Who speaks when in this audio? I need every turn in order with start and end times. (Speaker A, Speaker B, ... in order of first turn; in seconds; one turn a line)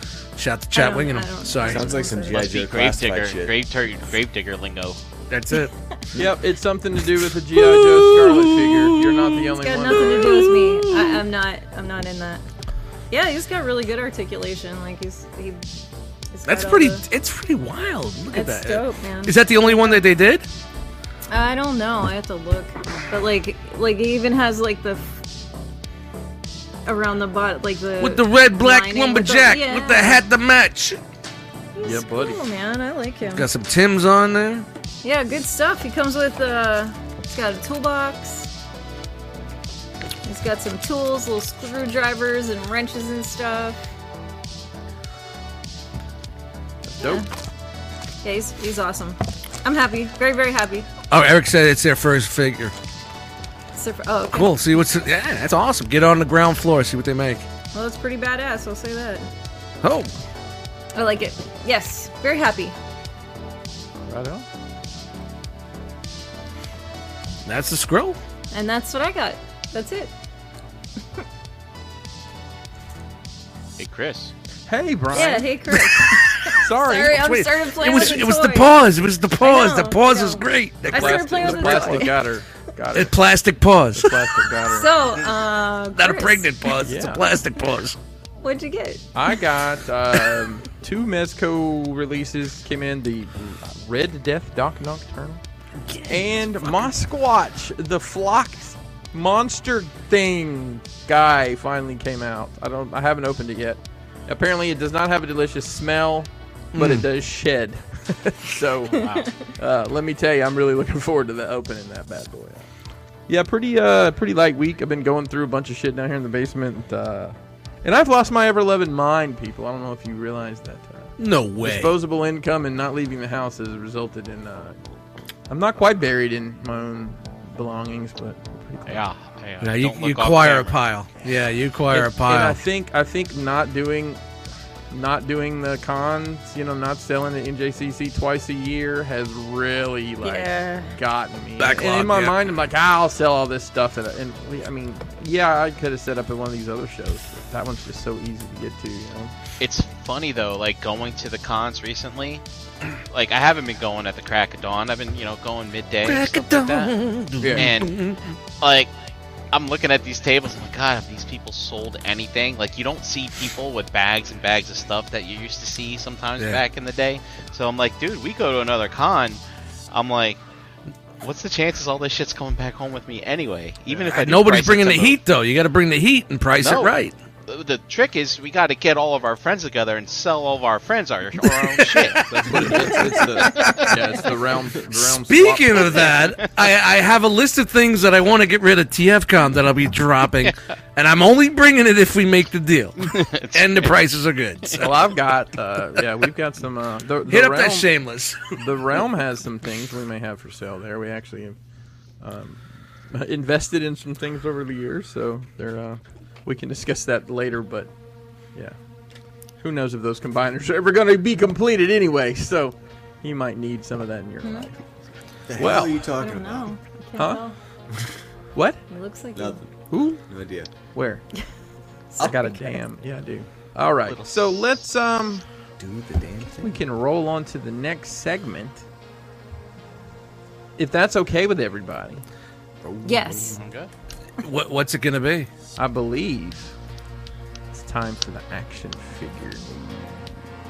Speaker A: 0.3-2.1
Speaker B: 0.7-2.5
Speaker C: 1.6-3.6
Speaker D: 2.3-5.0
Speaker A: 5.3-5.7
Speaker E: 6.1-10.4
Speaker A: 7.4-11.2
Speaker B: 9.6-12.4
Speaker B: 13.1-15.6
Speaker B: 16.3-17.0
Speaker A: 16.4-20.5
Speaker B: 18.3-20.1
Speaker B: 21.3-25.1
Speaker B: 26.9-30.2
Speaker A: 28.0-31.0
Speaker B: 31.7-33.5
Speaker E: 31.8-32.4
Speaker A: 33.3-34.7
Speaker B: 35.0-38.5
Speaker B: 40.2-43.8
Speaker E: 46.9-47.2
Speaker B: 47.0-47.3
Speaker B: 48.2-50.9
Speaker A: 51.1-52.7
Speaker B: 53.7-54.6
Speaker A: 54.3-57.5
Speaker B: 57.7-59.3
Speaker A: 59.8-60.1
Speaker B: 60.9-62.7
Speaker E: 64.1-64.5
Speaker A: 67.4-68.2
Speaker B: 68.5-70.1
Speaker D: 73.8-74.3
Speaker E: 74.7-75.6
Speaker B: 75.1-78.8
Speaker A: 75.9-76.2
Speaker E: 76.5-77.2
Speaker A: 77.1-82.1
Speaker B: 79.4-82.2
Speaker E: 80.9-83.1
Speaker A: 82.9-84.4
Speaker E: 83.9-84.9
Speaker B: 84.7-86.9
Speaker A: 85.9-88.0
Speaker E: 86.8-87.2
Speaker B: 88.4-89.4
Speaker E: 89.1-95.4
Speaker A: 95.8-96.9
Speaker E: 96.1-112.7
Speaker A: 106.7-107.1
Speaker D: 108.9-109.3
Speaker B: 109.0-109.3
Speaker E: 113.3-124.8
Speaker A: 121.2-122.0
Speaker E: 125.5-129.1
Speaker D: 128.8-130.8
Speaker A: 129.6-132.6
Speaker E: 131.9-134.2
Speaker E: 134.9-149.3
Speaker B: 140.2-140.9
Speaker A: 141.6-142.4
Speaker D: 149.6-152.4
Speaker D: 153.1-156.9
Speaker A: 156.0-158.3
Speaker E: 157.4-157.7
Speaker D: 157.5-157.9
Speaker D: 158.6-158.9
Speaker D: 159.5-170.4
Speaker D: 171.2-175.2
Speaker A: 173.9-177.1
Speaker D: 176.6-176.9
Speaker D: 177.5-182.3
Speaker A: 181.7-184.1
Speaker E: 182.2-186.2
Speaker A: 184.9-195.1
Speaker D: 185.8-186.5
Speaker D: 193.0-194.0
Speaker E: 194.7-197.9
Speaker A: 197.2-198.5
Speaker E: 198.5-201.6
Speaker E: 202.2-207.9
Speaker E: 209.6-215.0
Speaker B: 214.4-214.7
Speaker C: 215.5-216.7
Speaker E: 215.6-216.1
Speaker B: 215.7-217.5
Speaker E: 217.2-217.4
Speaker E: 218.5-218.8
Speaker B: 218.9-219.6
Speaker C: 219.3-219.7
Speaker E: 219.9-220.2
Speaker C: 220.3-220.7
Speaker E: 220.9-221.2
Speaker B: 222.1-222.7
Speaker C: 222.2-222.6
Speaker E: 222.2-225.4
Speaker D: 224.0-224.8
Speaker C: 225.8-226.8
Speaker E: 226.6-228.8
Speaker E: 230.8-232.2
Speaker C: 232.8-233.6
Speaker B: 233.0-233.6
Speaker D: 233.5-233.9
Speaker A: 234.4-235.5
Speaker E: 235.8-236.7
Speaker E: 237.7-240.1